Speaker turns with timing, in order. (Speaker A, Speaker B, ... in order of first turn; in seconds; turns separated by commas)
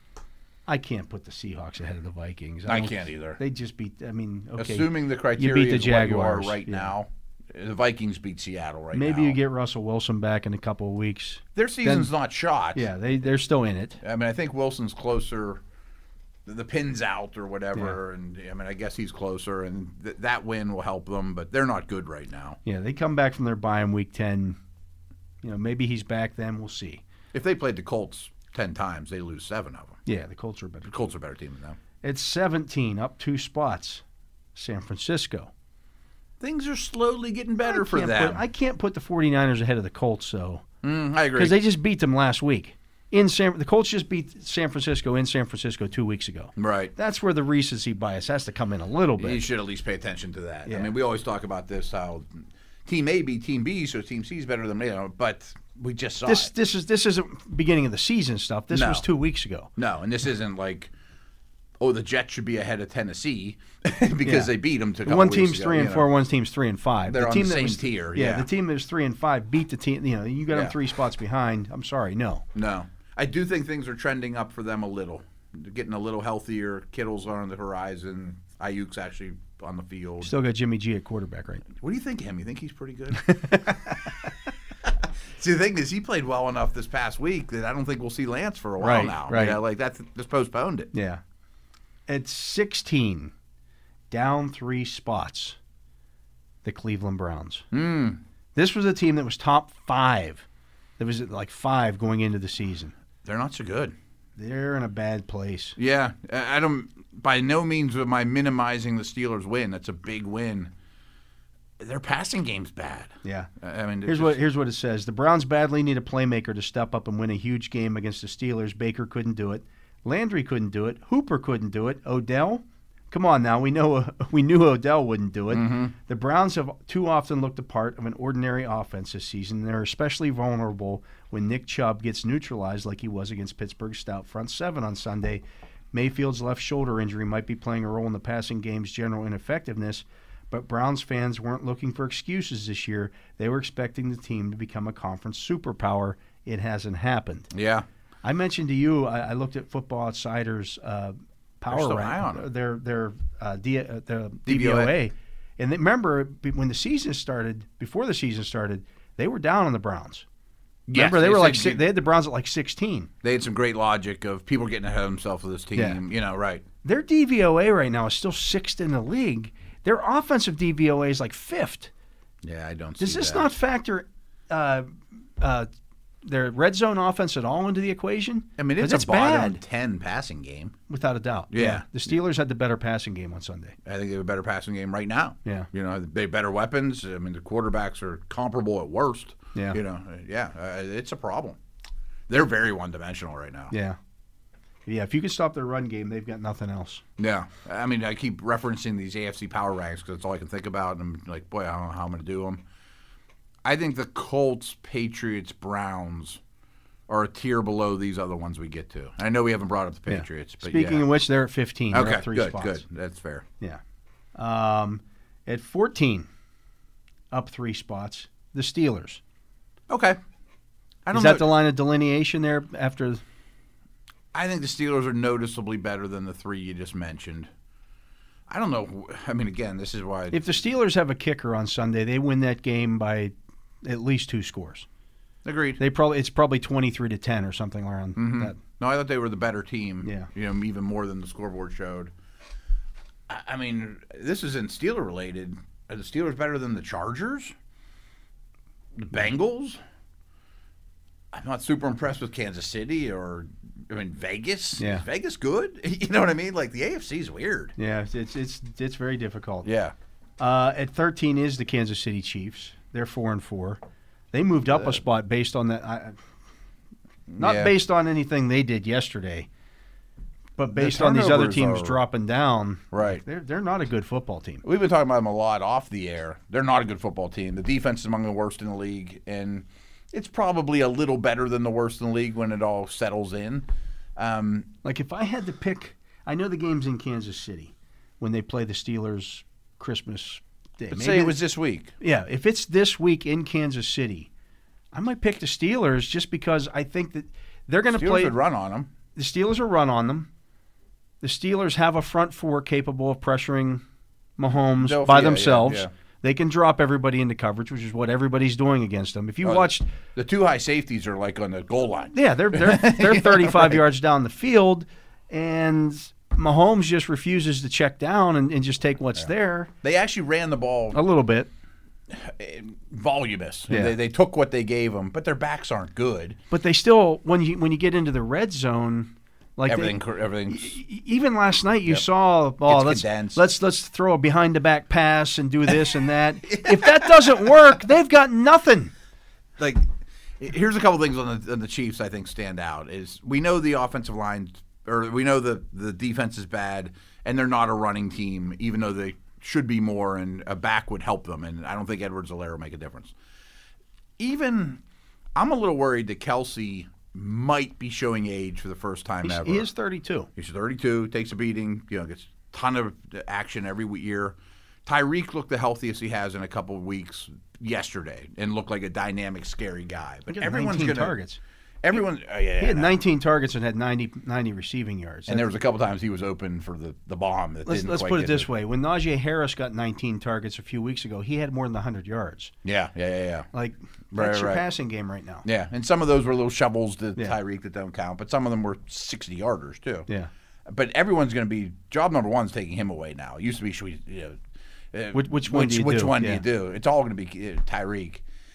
Speaker A: 0.7-6.9, Speaker B: 2.6-3.4, Speaker B: 4.6-9.4, Speaker A: 8.9-12.1, Speaker B: 11.5-12.9, Speaker A: 12.7-14.0, Speaker B: 14.0-15.6, Speaker B: 16.4-22.6, Speaker A: 22.6-24.6, Speaker A: 25.4-27.0, Speaker B: 27.3-30.0, Speaker A: 30.1-30.9, Speaker B: 30.8-31.8, Speaker A: 32.0-34.0, Speaker A: 34.5-35.5, Speaker B: 36.4-38.4, Speaker A: 37.6-40.6, Speaker B: 40.8-41.6, Speaker A: 41.3-49.4, Speaker B: 46.6-46.9, Speaker B: 49.2-56.5, Speaker A: 50.6-50.9, Speaker A: 56.2-59.7, Speaker B: 58.7-59.1, Speaker B: 59.8-60.9, Speaker B: 61.8-66.1, Speaker A: 64.2-64.5, Speaker A: 65.0-72.5, Speaker B: 67.1-68.5, Speaker B: 70.5-70.8, Speaker B: 72.5-80.3, Speaker A: 80.2-81.7, Speaker B: 81.8-84.1, Speaker A: 83.1-84.3, Speaker B: 84.8-90.9, Speaker A: 88.8-89.6, Speaker A: 90.9-91.2, Speaker A: 92.1-93.3, Speaker A: 94.1-95.6, Speaker A: 96.6-97.7, Speaker B: 97.7-98.2, Speaker A: 98.5-100.4, Speaker A: 101.0-102.9, Speaker B: 103.2-104.0, Speaker A: 104.4-105.8, Speaker B: 105.8-110.7, Speaker B: 111.8-114.4, Speaker A: 113.2-113.5, Speaker A: 114.0-147.5, Speaker B: 125.5-125.9, Speaker B: 147.5-147.8, Speaker A: 148.2-160.2, Speaker B: 151.7-152.4, Speaker B: 154.4-154.9, Speaker B: 160.9-161.9, Speaker A: 160.9-163.1, Speaker B: 163.2-166.6, Speaker A: 165.7-166.0, Speaker A: 166.8-171.9, Speaker B: 172.4-173.5, Speaker A: 173.0-175.7, Speaker A: 176.2-179.6, Speaker B: 178.6-180.8, Speaker A: 180.9-183.8, Speaker B: 181.5-181.9, Speaker B: 183.8-191.6, Speaker B: 192.3-193.7, Speaker A: 193.7-194.0, Speaker A: 194.8-197.0, Speaker B: 197.2-202.6, Speaker B: 203.6-206.4, Speaker B: 207.1-211.1, Speaker A: 210.1-212.8, Speaker B: 211.9-213.4, Speaker A: 214.3-216.3, Speaker A: 217.3-219.2, Speaker B: 219.9-220.2, Speaker B: 221.1-221.5, Speaker A: 221.1-223.2, Speaker B: 224.3-227.5, Speaker B: 228.5-230.4, Speaker A: 230.3-234.9, Speaker B: 235.4-235.8, Speaker A: 235.8-238.6, Speaker B: 238.2-242.1, Speaker A: 240.0-240.3, Speaker B: 243.3-247.5, Speaker B: 248.9-249.8, Speaker B: 251.3-257.7, Speaker A: 254.8-255.0, Speaker A: 257.8-259.7, Speaker B: 259.6-259.9, Speaker A: 260.4-263.8, Speaker A: 264.3-266.2, Speaker B: 264.7-265.0, Speaker B: 267.3-267.7, Speaker A: 267.4-269.5, Speaker A: 270.6-274.6, Speaker B: 270.7-272.0, Speaker B: 272.9-273.2, Speaker B: 274.6-284.7, Speaker A: 284.8-291.4, Speaker B: 290.9-291.9, Speaker A: 292.0-294.3, Speaker A: 294.9-298.4, Speaker B: 297.9-298.9, Speaker A: 299.1-300.3, Speaker A: 301.2-303.8, Speaker A: 304.4-309.9, Speaker B: 304.8-305.9, Speaker B: 309.4-313.8, Speaker A: 312.1-319.7, Speaker B: 319.8-321.0, Speaker A: 320.9-321.5, Speaker B: 322.1-326.4, Speaker A: 323.7-323.9, Speaker A: 326.5-338.9, Speaker B: 329.7-330.8, Speaker B: 332.6-333.4, Speaker B: 336.5-337.5, Speaker B: 339.6-353.1, Speaker B: 354.2-354.8, Speaker B: 355.4-359.7, Speaker A: 359.2-360.3, Speaker B: 360.4-371.1, Speaker A: 370.3-371.4, Speaker B: 371.8-373.0, Speaker A: 372.6-375.5, Speaker B: 375.3-378.5, Speaker A: 377.6-382.5, Speaker B: 382.6-383.5, Speaker A: 383.5-385.4, Speaker B: 384.1-384.6, Speaker B: 385.4-390.1, Speaker B: 390.6-394.4, Speaker B: 394.9-398.2, Speaker A: 395.1-396.4